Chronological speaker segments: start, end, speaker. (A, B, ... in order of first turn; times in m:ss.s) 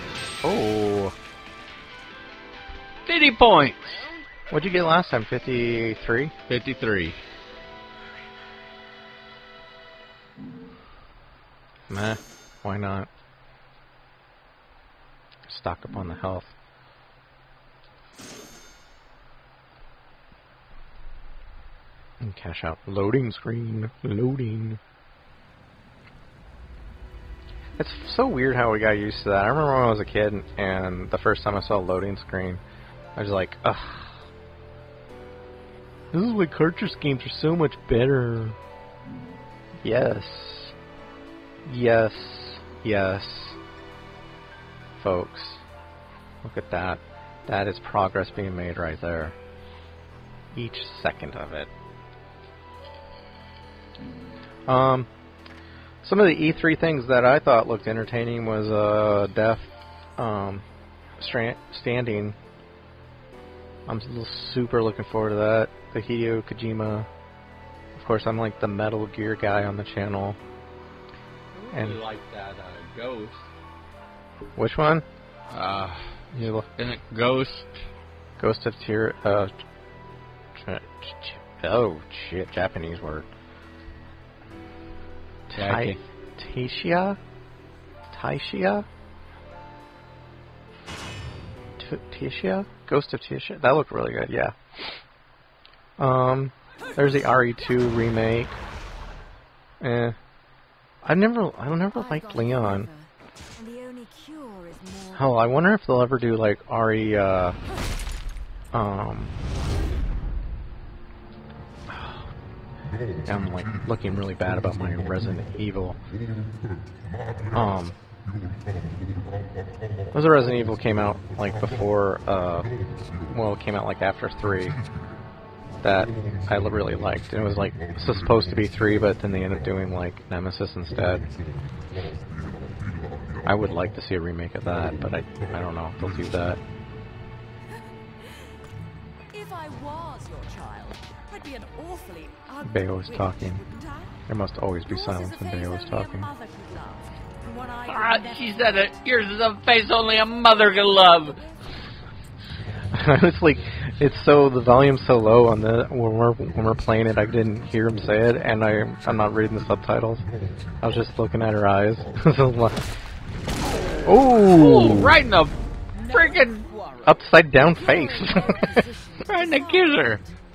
0:00.4-0:01.1 A
0:03.0-0:04.1 B
0:04.5-0:06.3 A
0:06.5-0:07.2 B
0:11.9-0:13.1 A
0:15.5-0:16.5 A
0:22.2-0:24.8 A
0:27.8-0:32.6 A
0:33.2-0:34.2 A
0:36.1-0:38.6 A
0:39.8-0:40.7 A
0:41.6-0:43.6 A
0:45.0-0:45.6 A
0:46.4-0:49.4 A
0:50.5-0:51.7 A
0:54.7-0:55.1 A
0:56.0-1:00.6 A
1:01.2-1:02.4 A
1:03.9-1:07.1 A
1:08.0-1:10.4 A
1:11.5-1:13.5 B
1:11.7-1:12.0 A
1:14.6-1:15.0 A
1:15.5-1:16.1 B
1:16.3-1:16.7 A
1:16.7-1:17.8 B
1:18.4-1:19.5 A
1:20.6-1:23.3 A
1:25.5-1:27.2 A
1:25.6-1:26.0 B
1:28.1-1:28.8 A
1:31.8-1:35.0 A
1:36.0-1:38.6 A
1:39.8-1:40.2 A
1:41.0-1:42.9 A
1:41.9-1:45.3 C
1:45.1-1:47.6 A
1:48.7-1:49.3 A
1:51.9-1:52.2 A
1:53.2-1:56.0 A
1:57.5-1:57.9 A
2:00.1-2:02.7 A
2:03.3-2:04.8 A
2:05.8-2:11.2 A
2:13.4-2:16.6 A
2:17.7-2:18.6 C
2:19.3-2:24.2 C
2:22.6-2:23.6 A
2:24.3-2:26.3 A
2:24.9-2:31.6 C
2:27.9-2:31.4 B
2:32.9-2:40.2 A
2:40.8-2:42.8 A
2:44.0-2:45.1 A
2:44.5-2:45.6 B
2:45.9-2:50.4 C
2:46.1-2:46.6 B
2:47.0-2:48.8 A
2:49.2-2:50.2 B